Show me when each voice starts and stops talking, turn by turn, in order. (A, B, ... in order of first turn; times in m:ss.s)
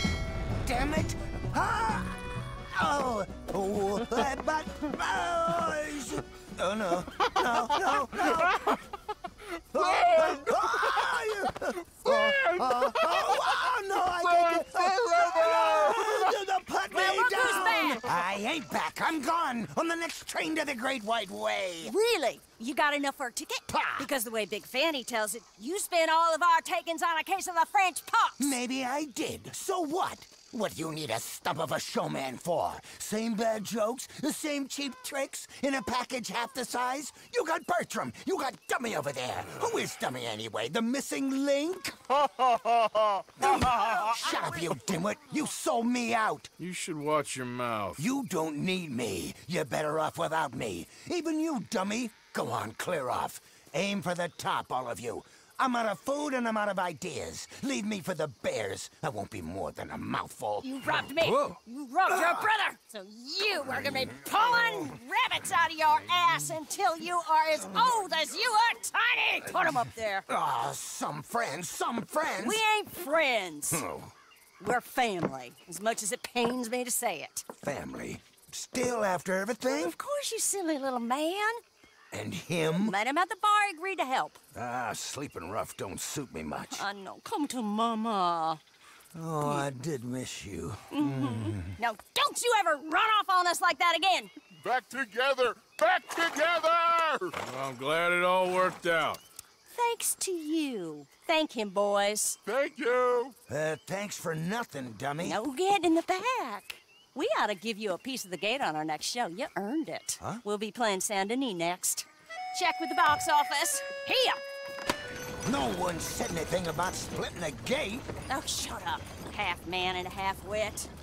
0:00.6-0:08.8 A
0:09.7-0:21.9 A
0:09.8-0:10.3 B
0:12.1-0:13.2 B
0:14.3-0:16.3 B
0:16.9-0:18.0 C
0:21.8-0:28.6 C
0:23.7-0:24.1 A
0:28.4-0:42.1 A
0:42.2-0:43.4 B
0:43.4-0:46.5 A
0:46.6-0:48.0 D
0:48.0-1:02.5 A
1:00.6-1:10.3 C
1:03.8-1:04.7 A
1:10.3-1:12.6 A
1:12.3-1:13.9 C
1:13.7-1:14.1 A
1:14.6-1:17.5 C
1:17.6-1:20.0 A
1:19.7-1:21.6 C
1:22.1-1:23.0 A
1:22.7-1:24.4 C
1:24.5-1:26.8 A
1:26.7-1:28.6 C
1:29.1-1:31.8 A
1:30.9-1:34.3 C
1:34.6-1:37.4 B
1:37.4-1:39.2 D
1:39.7-1:42.4 C
1:42.5-1:43.4 B
1:43.5-1:45.4 A
1:45.2-1:54.4 C
1:55.4-1:58.1 A
1:58.3-2:00.9 C